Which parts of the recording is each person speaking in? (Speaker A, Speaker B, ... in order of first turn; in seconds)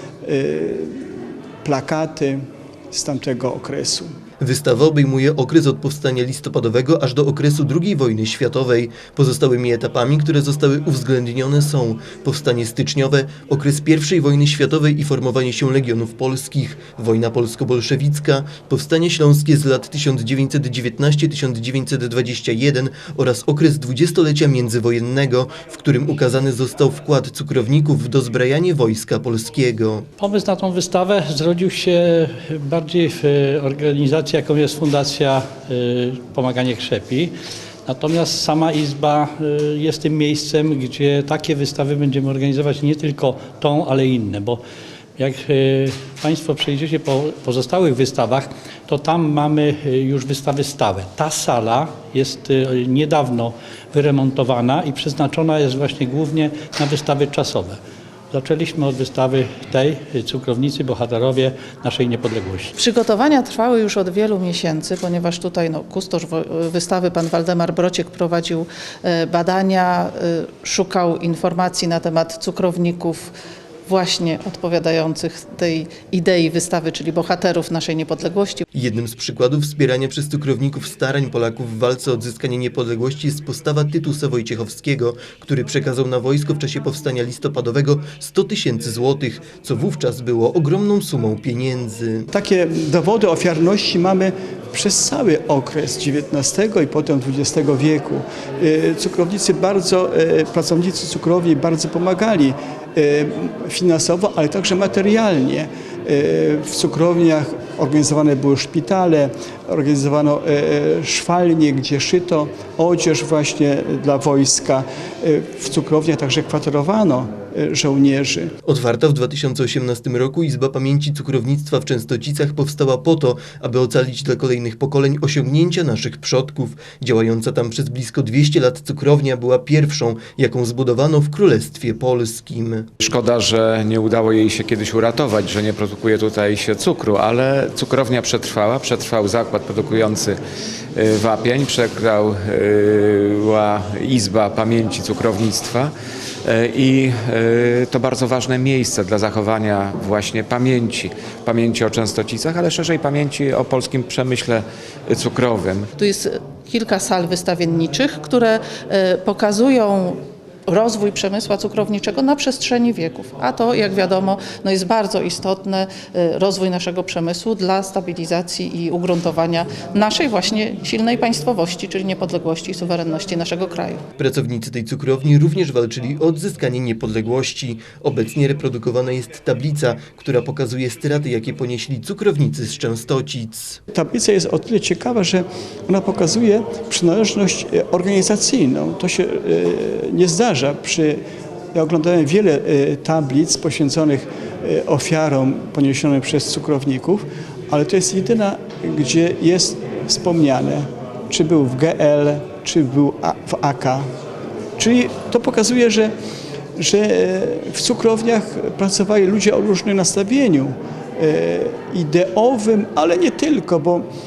Speaker A: 0.2-1.1, 1.6-4.1, 92.3-118.5, 183.9-191.2, 191.7-204.1, 204.8-206.1, 206.8-214.1
Speaker B: 4.4-30.1, 78.7-92.3, 118.6-132.9, 174.2-183.8
Speaker C: 30.2-37.3, 37.9-44.6, 45.2-57.8, 58.3-62.7
Speaker D: 62.8-73.3, 73.9-78.6, 156.0-174.0
Speaker E: 133.0-140.4, 140.9-145.9, 146.4-155.9